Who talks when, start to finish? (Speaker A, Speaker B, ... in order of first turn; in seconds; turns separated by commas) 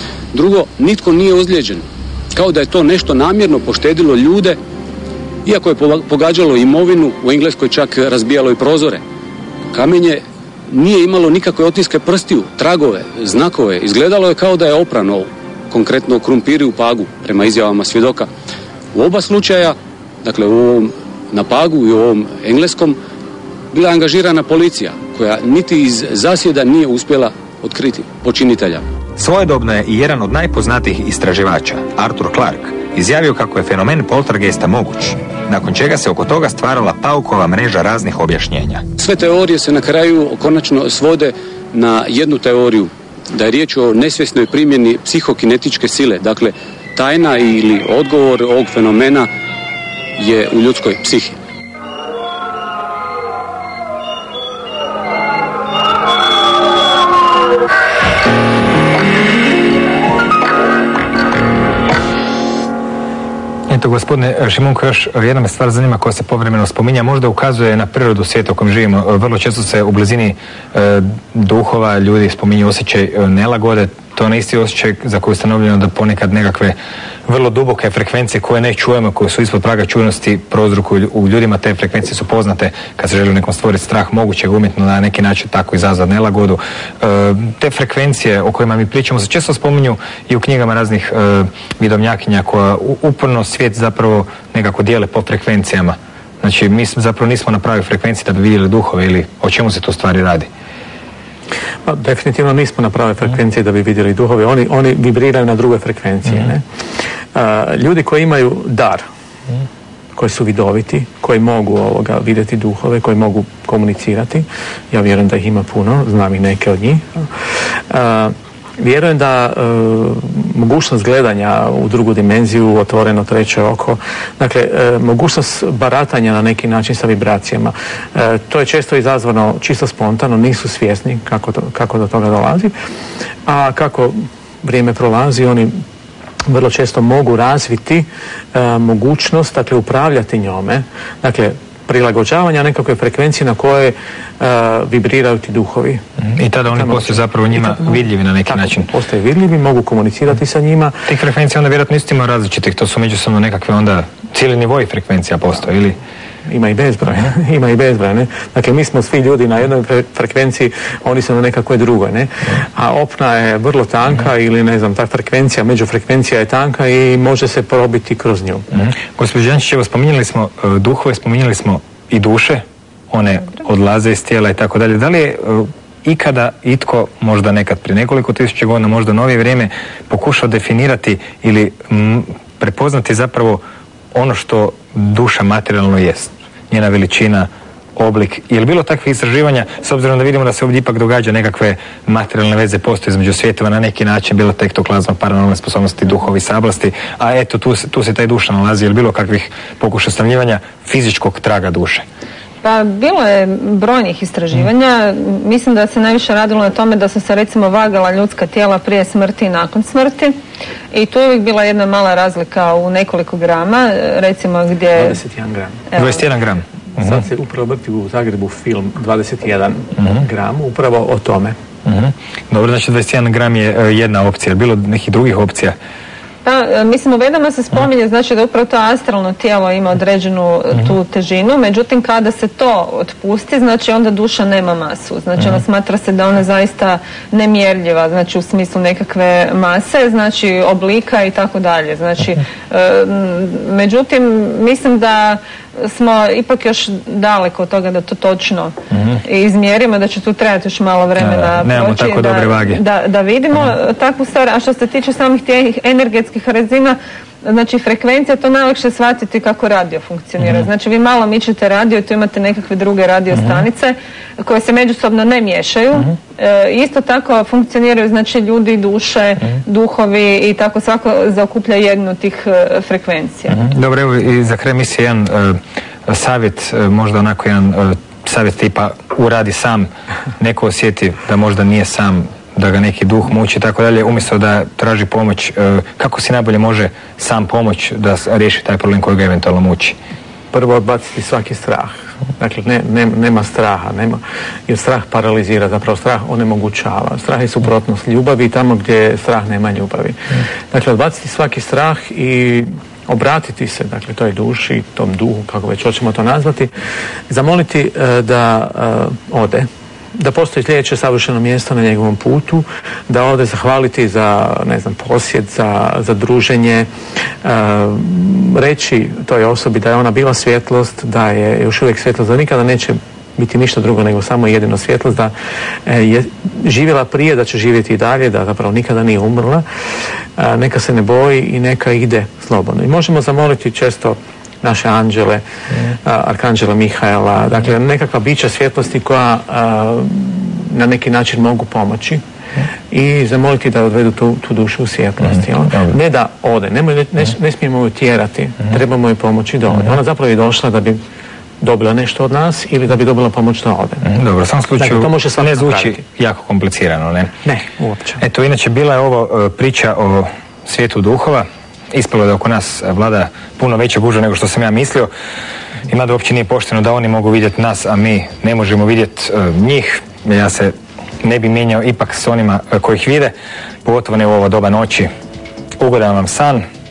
Speaker A: 0.3-1.8, Speaker A: 2.4-4.6, Speaker A: 5.5-9.0, Speaker A: 9.7-18.3, Speaker A: 18.9-23.0, Speaker A: 23.7-28.8, Speaker B: 29.2-38.9, Speaker A: 39.0-49.3, Speaker A: 50.2-51.4, Speaker B: 63.7-76.8, Speaker B: 77.3-100.5, Speaker C: 101.8-106.6, Speaker C: 107.3-109.0, Speaker C: 110.2-117.3, Speaker C: 117.9-132.7, Speaker C: 133.5-135.8, Speaker C: 136.5-146.0, Speaker B: 146.2-148.9, Speaker C: 146.7-151.0, Speaker B: 151.1-156.0, Speaker C: 156.4-168.7, Speaker B: 168.8-183.6, Speaker B: 184.1-202.1, Speaker D: 202.6-210.3, Speaker D: 210.9-215.2, Speaker C: 215.0-215.9, Speaker D: 215.9-216.2, Speaker B: 216.0-217.3, Speaker C: 217.0-221.6, Speaker B: 221.8-225.8, Speaker D: 226.4-273.6, Speaker B: 251.2-252.8, Speaker B: 273.5-290.0, Speaker C: 290.5-306.7, Speaker C: 307.3-316.9, Speaker C: 317.4-325.3, Speaker C: 325.9-329.6, Speaker C: 330.4-342.2, Speaker C: 342.9-351.0, Speaker C: 351.6-354.1, Speaker B: 354.1-357.3, Speaker C: 354.8-356.0, Speaker C: 357.4-358.2, Speaker B: 358.2-365.1, Speaker B: 365.9-375.1, Speaker B: 375.8-376.6